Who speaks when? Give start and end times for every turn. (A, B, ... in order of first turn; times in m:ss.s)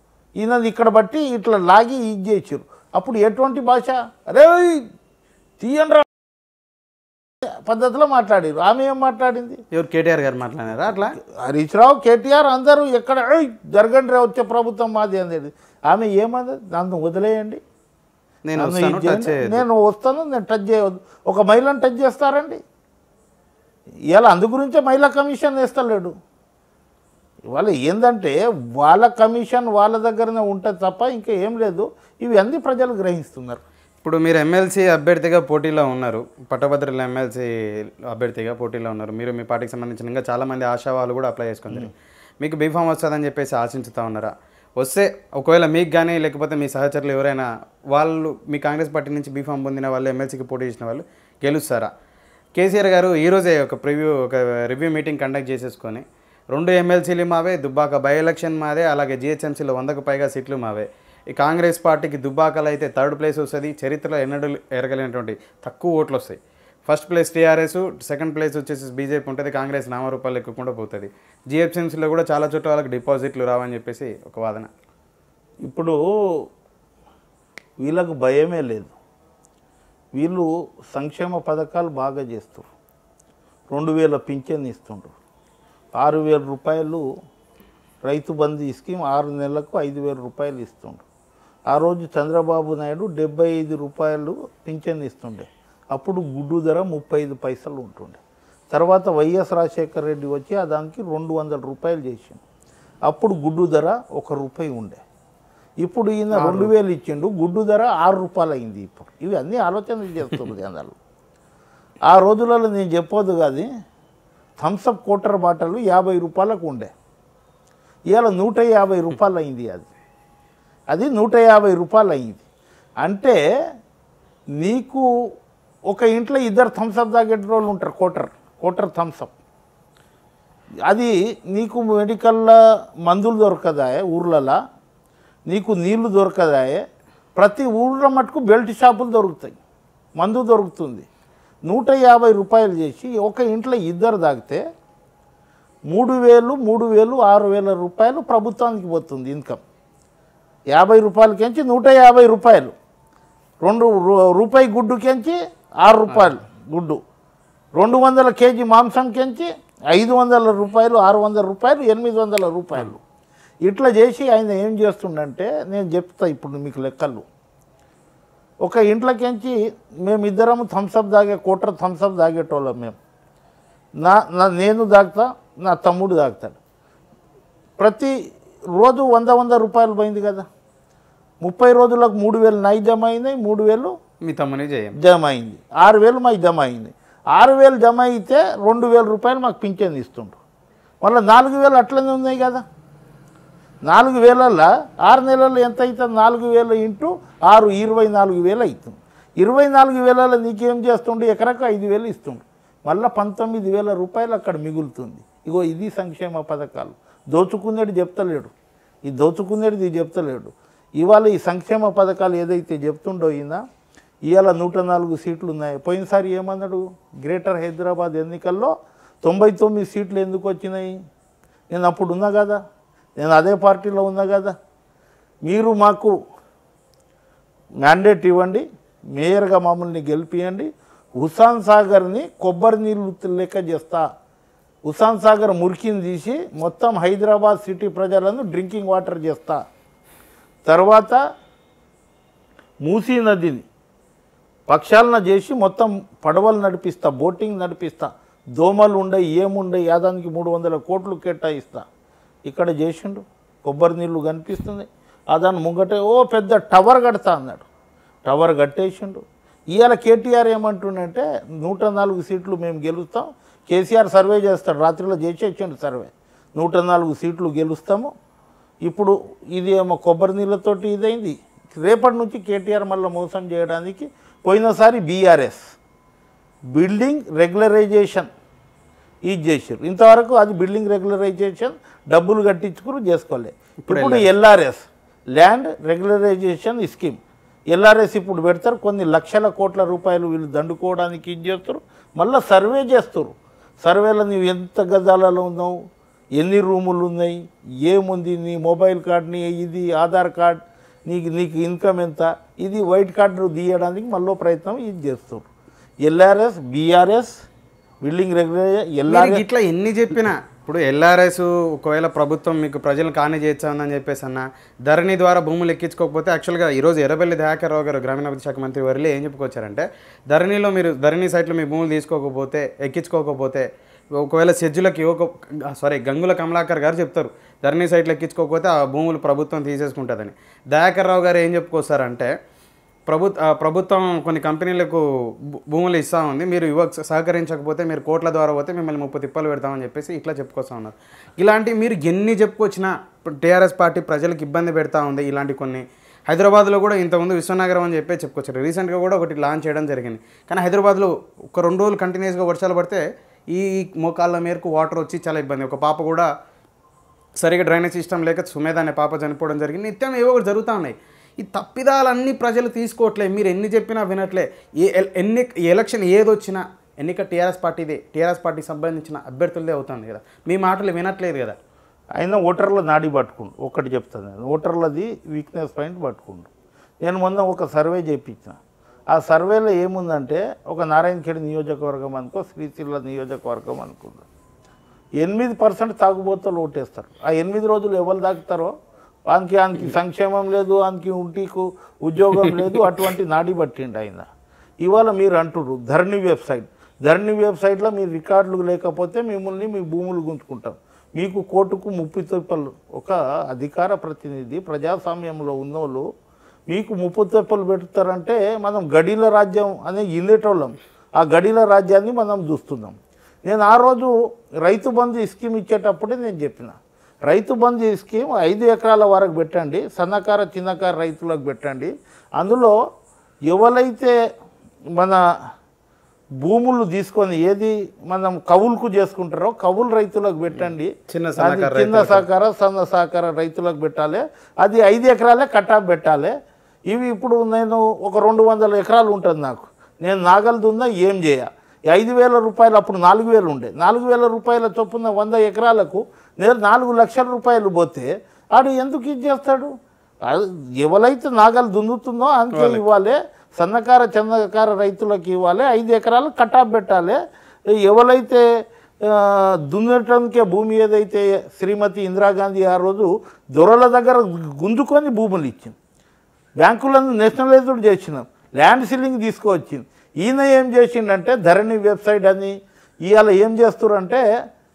0:00.4-0:04.8 A
0:05.6-0:06.0 A
0:07.6-0:09.6 A
0:09.7-0:11.2 B
0:11.2-0:17.6 A
0:18.4-0:19.6 B
0:18.6-0:22.6 A
0:24.1-0:26.1 A
0:27.5-0:33.6 A
0:34.0-0:37.5 B
0:38.1-0:51.9 B
0:52.6-1:14.7 B
1:15.6-1:16.0 A
1:17.8-1:18.9 A
1:20.1-1:22.7 A
1:23.7-1:25.1 A
1:26.0-1:27.0 A
1:28.0-1:31.0 A
1:31.7-1:38.2 A
1:38.7-1:42.4 A
1:43.1-1:45.0 A
1:45.8-1:50.9 A
1:46.3-1:46.7 B
1:52.1-1:53.7 A
1:54.6-1:56.9 A
1:58.1-1:59.9 A
2:00.9-2:02.4 A
2:03.0-2:03.4 A
2:04.6-2:05.0 A
2:05.9-2:09.3 A
2:10.9-2:14.6 A
2:15.5-2:16.8 A
2:17.4-2:19.6 A
2:20.2-2:21.0 A
2:21.7-2:24.6 A
2:25.9-2:29.6 A
2:30.7-2:32.7 A
2:33.6-2:37.0 A
2:37.8-2:43.0 A
2:43.6-2:47.2 A
2:48.6-2:53.0 A
2:54.0-2:56.6 A
2:57.8-2:58.1 A
2:58.7-3:00.4 A
3:01.4-3:03.9 A
3:04.2-3:04.9 B
3:05.0-3:10.4 A
3:11.0-3:12.6 A
3:13.8-3:28.5 A
3:29.0-3:33.6 A
3:34.3-3:40.9 A
3:41.7-3:42.6 A
3:43.2-3:44.5 A
3:45.4-3:46.2 A
3:47.8-3:54.0 A
3:54.8-3:59.6 A
4:00.6-4:01.2 A
4:02.8-4:03.6 A
4:04.7-4:11.8 A
4:12.4-4:17.6 A
4:18.2-4:28.1 A
4:28.8-4:35.6 A
4:36.7-4:38.3 A
4:39.2-4:47.2 A
4:43.8-4:44.3 B
4:47.7-4:55.8 A
4:56.4-5:05.4 A
5:06.0-5:07.3 A
5:08.0-5:09.4 A
5:09.1-5:23.7 B
5:24.2-5:32.3 B
5:33.1-5:35.0 B
5:35.7-5:56.3 B
5:57.4-6:11.6 B
6:12.2-6:16.5 A
6:17.0-6:18.6 A
6:19.1-6:24.2 A
6:25.2-6:28.7 A
6:29.3-6:34.3 A
6:34.8-6:46.0 A
6:46.7-7:02.8 A
7:03.5-7:04.1 A
7:04.9-7:05.2 A
7:06.4-7:16.3 A
7:11.1-7:12.2 B
7:16.9-7:29.7 A
7:30.2-7:37.2 A
7:32.5-7:32.8 B
7:37.7-7:38.4 A
7:39.0-7:45.7 A
7:46.6-7:52.5 A
7:53.0-7:54.2 A